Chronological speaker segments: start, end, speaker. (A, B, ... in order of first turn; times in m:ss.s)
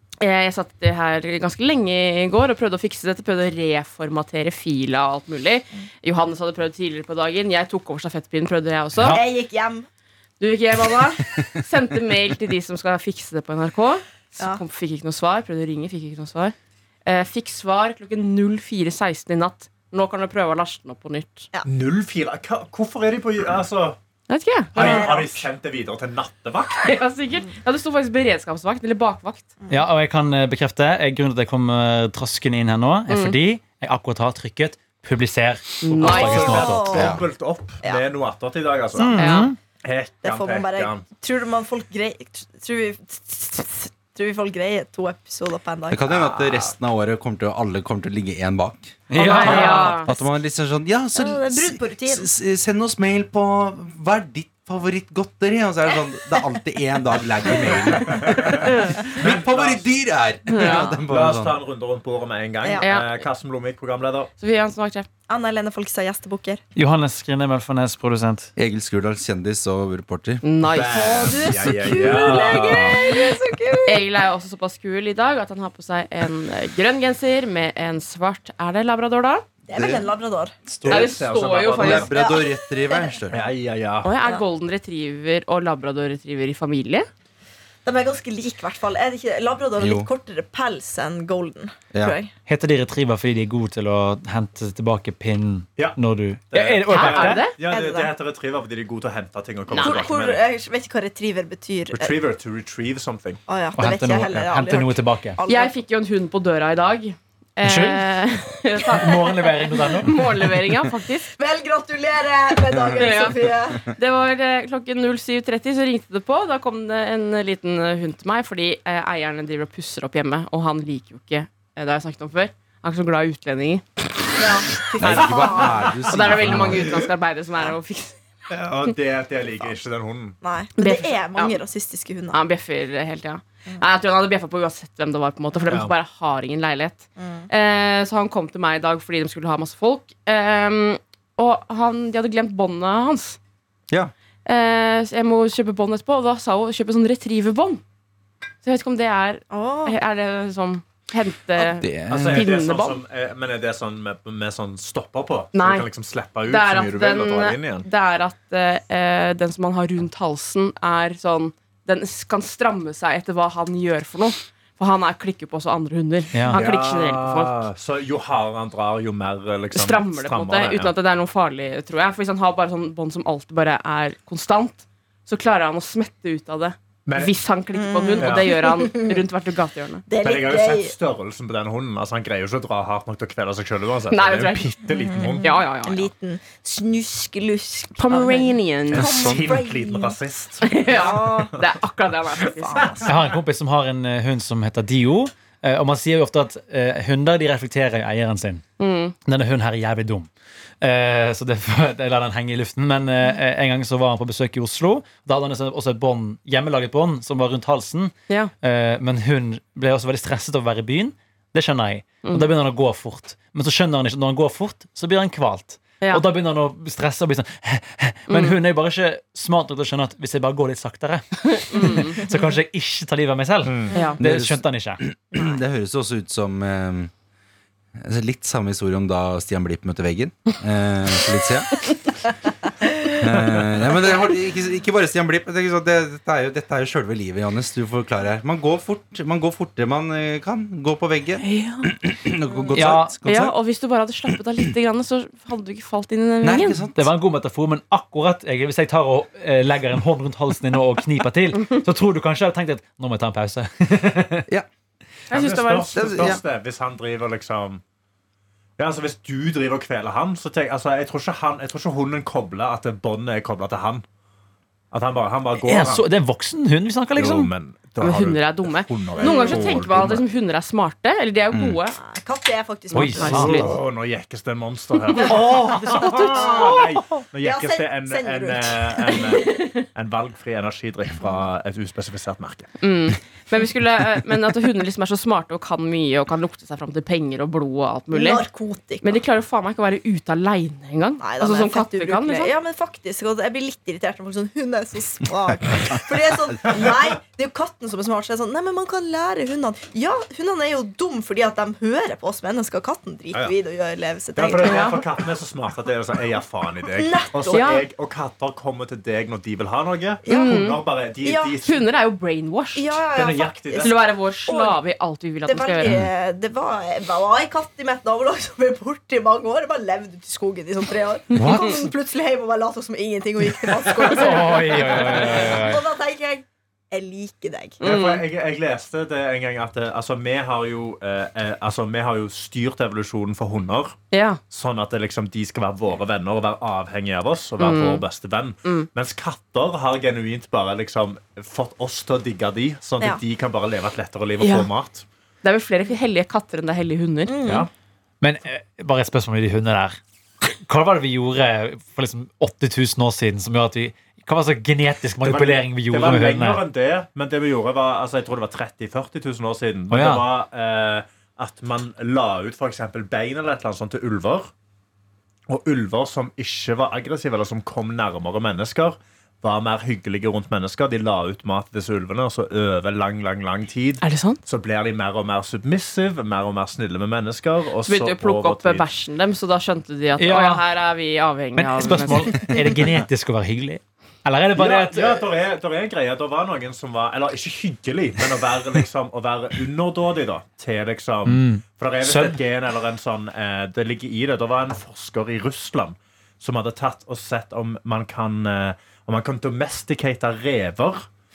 0:00.2-0:09.2 A
0:09.0-0:09.3 B
0:09.0-0:09.9 C
0:10.4-0:21.5 A
0:21.6-0:24.0 D
0:24.3-0:25.1 A
0:24.8-0:25.5 C
0:24.8-0:26.9 D
0:26.8-0:29.5 A
0:29.7-0:37.0 B
0:33.1-0:33.4 A
0:35.8-0:36.7 A
0:35.9-0:41.0 D
0:36.2-0:37.2 C
0:36.9-0:37.2 E
0:39.0-0:39.6 B
0:39.2-0:39.5 A
0:40.2-0:46.7 C
0:45.9-1:01.6 E
0:49.1-0:50.1 B
0:49.1-0:50.1 A
0:51.2-0:52.3 C
0:58.1-0:59.9 D
0:58.6-0:59.0 A
1:00.5-1:00.9 A
1:00.6-1:04.3 D
1:02.8-1:03.2 A
1:04.4-1:05.1 A
1:05.3-1:06.6 C
1:06.8-1:08.5 B
1:08.6-1:10.4 E
1:10.4-1:11.3 A
1:10.7-1:13.0 D
1:10.9-1:14.1 C
1:11.5-1:12.2 E
1:12.5-1:13.1 A
1:13.8-1:19.5 A
1:19.7-1:20.6 C
1:19.7-1:20.1 E
1:20.7-1:21.1 E
1:20.8-1:22.1 D
1:20.8-1:22.1 A
1:21.8-1:23.4 E
1:22.0-1:23.2 C
1:23.3-1:24.1 D
1:24.0-1:27.1 A
1:27.8-1:32.3 C
1:29.8-1:30.1 E
1:32.5-1:37.6 B
1:36.5-1:40.4 D
1:36.9-1:37.6 A
1:37.6-1:38.1 C
1:39.7-1:40.1 A
1:39.8-1:42.2 C
1:41.9-1:43.4 D
1:43.5-1:45.7 C
1:43.8-1:45.4 B
1:45.5-1:51.3 A
1:47.6-1:48.1 B
1:48.9-1:50.5 B
1:51.3-1:53.9 C
1:53.0-2:03.9 A
2:04.4-2:06.0 C
2:04.9-2:07.0 E
2:05.1-2:08.2 A
2:08.5-2:10.4 D
2:10.4-2:12.4 C
2:10.8-2:11.6 A
2:12.3-2:23.4 A
2:17.2-2:17.5 C
2:24.5-2:27.8 A
2:28.6-2:33.0 A
2:29.5-2:30.0 C
2:31.6-2:32.5 E
2:32.1-2:37.9 D
2:35.5-2:35.9 A
2:36.5-2:47.6 A
2:46.3-2:46.6 B
2:46.5-2:50.9 D
2:49.7-3:00.0 A
2:57.1-2:57.4 D
2:57.7-2:59.2 C
2:58.2-2:58.5 D
3:00.1-3:01.0 C
3:00.2-3:05.6 D
3:04.1-3:04.8 A
3:04.9-3:10.2 C
3:05.4-3:06.1 A
3:08.0-3:09.1 A
3:08.9-3:09.6 E
3:08.9-3:11.4 D
3:10.6-3:13.0 A
3:10.8-3:11.6 C
3:12.4-3:13.2 C
3:12.8-3:13.2 D
3:13.0-3:18.6 B
3:18.8-3:19.2 A
3:19.2-3:20.3 B
3:20.8-3:45.0 B
3:32.2-3:32.5 A
3:38.3-3:38.6 A
3:41.5-3:42.2 A
3:43.6-3:44.0 D
3:43.9-3:44.2 C
3:43.9-3:44.2 A
3:44.2-3:47.1 E
3:48.0-3:51.9 E
3:53.1-4:03.6 E
4:01.4-4:01.9 A
4:02.5-4:02.9 C
4:02.7-4:03.2 B
4:03.2-4:06.9 A
4:06.4-4:07.1 E
4:07.0-4:14.5 B
4:15.3-4:16.2 A
4:15.3-4:17.8 D
4:16.0-4:16.4 E
4:18.8-4:24.0 D
4:24.9-4:26.1 D
4:25.6-4:27.5 B
4:27.2-4:30.2 D
4:28.0-4:32.0 A
4:29.2-4:29.8 C
4:31.5-4:31.8 E
4:32.0-4:33.6 C
4:32.9-4:33.7 B
4:32.9-4:33.8 A
4:33.2-4:42.7 D
4:35.1-4:36.7 B
4:36.0-4:39.6 C
4:39.5-4:39.8 A
4:42.8-4:48.4 A
4:48.1-4:49.2 C
4:49.0-4:52.5 A
4:51.2-5:04.9 C
5:04.4-5:11.9 D
5:04.6-5:05.0 A
5:06.9-5:07.7 C
5:07.5-5:07.9 A
5:10.3-5:10.6 C
5:10.3-5:10.8 A
5:11.2-5:11.6 C
5:11.6-5:13.0 A
5:12.8-5:14.0 C
5:13.1-5:14.0 D
5:13.7-5:16.0 A
5:14.5-5:14.8 C
5:15.4-5:27.8 C
5:21.3-5:21.7 A
5:21.3-5:21.9 B
5:23.9-5:25.9 B
5:27.8-5:28.2 A
5:27.8-5:34.0 D
5:34.1-5:34.4 A
5:34.5-5:45.0 D
5:37.6-5:38.0 A
5:44.4-5:44.7 A
5:45.4-5:47.5 A
5:47.3-5:47.7 C
5:48.2-5:50.0 B
5:50.6-5:56.6 B
5:55.2-6:04.5 D
5:59.9-6:00.3 B
6:05.5-6:18.9 D
6:14.0-6:14.4 A
6:17.9-6:22.5 A
6:20.2-6:20.7 B
6:21.6-6:25.3 B
6:24.6-6:41.1 D
6:31.3-6:32.4 B